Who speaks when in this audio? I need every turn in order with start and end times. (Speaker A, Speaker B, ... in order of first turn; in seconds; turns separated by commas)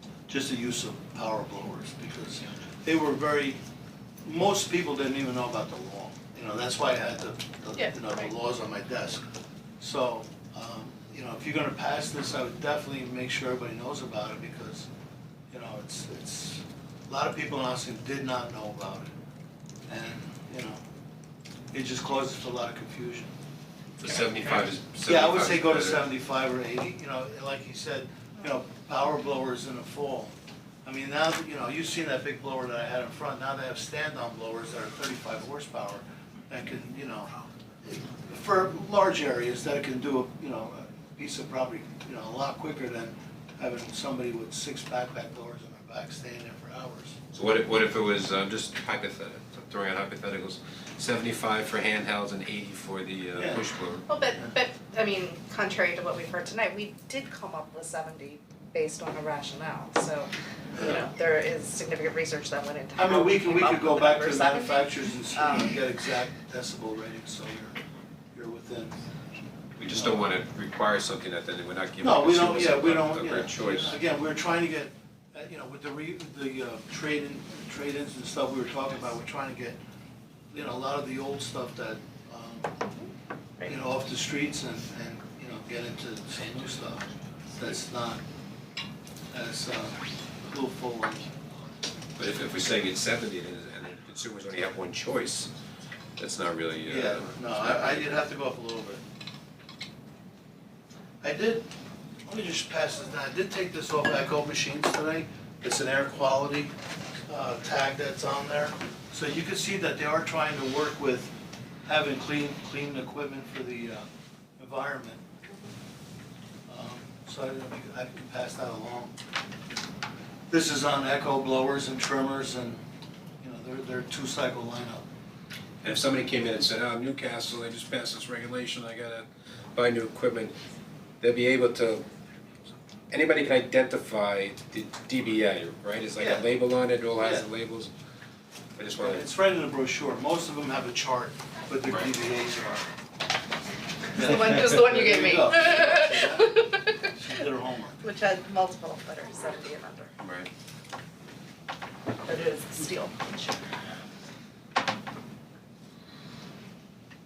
Speaker A: 0.3-3.6, Speaker A: 4.2-9.2, Speaker A: 9.8-14.9, Speaker A: 15.5-19.1, Speaker A: 19.9-20.8, Speaker A: 21.7-23.3, Speaker B: 24.0-26.0, Speaker A: 25.0-30.3, Speaker A: 30.8-47.2, Speaker B: 47.3-54.1, Speaker A: 53.3-53.6, Speaker C: 54.1-65.8, Speaker A: 60.7-61.1, Speaker A: 63.0-67.8, Speaker A: 68.3-69.0, Speaker B: 69.8-74.0, Speaker A: 69.8-70.2, Speaker A: 72.0-79.8, Speaker A: 80.5-82.8, Speaker C: 82.8-83.1, Speaker A: 83.6-88.2, Speaker A: 89.3-91.4, Speaker B: 92.2-95.5, Speaker B: 96.2-98.2, Speaker A: 96.8-99.0, Speaker A: 101.2-101.7, Speaker A: 102.2-106.7, Speaker A: 107.3-111.3, Speaker A: 111.8-114.0, Speaker A: 114.6-115.2, Speaker A: 116.7-119.1, Speaker A: 120.5-122.8, Speaker A: 123.4-125.1, Speaker B: 125.8-130.6, Speaker B: 131.2-132.0, Speaker B: 133.1-137.9, Speaker A: 136.2-136.5, Speaker A: 137.2-137.5, Speaker B: 138.8-139.3, Speaker A: 139.0-142.8, Speaker C: 144.1-147.1, Speaker A: 144.1-148.1, Speaker C: 148.0-150.1, Speaker B: 150.2-150.5, Speaker C: 152.2-153.7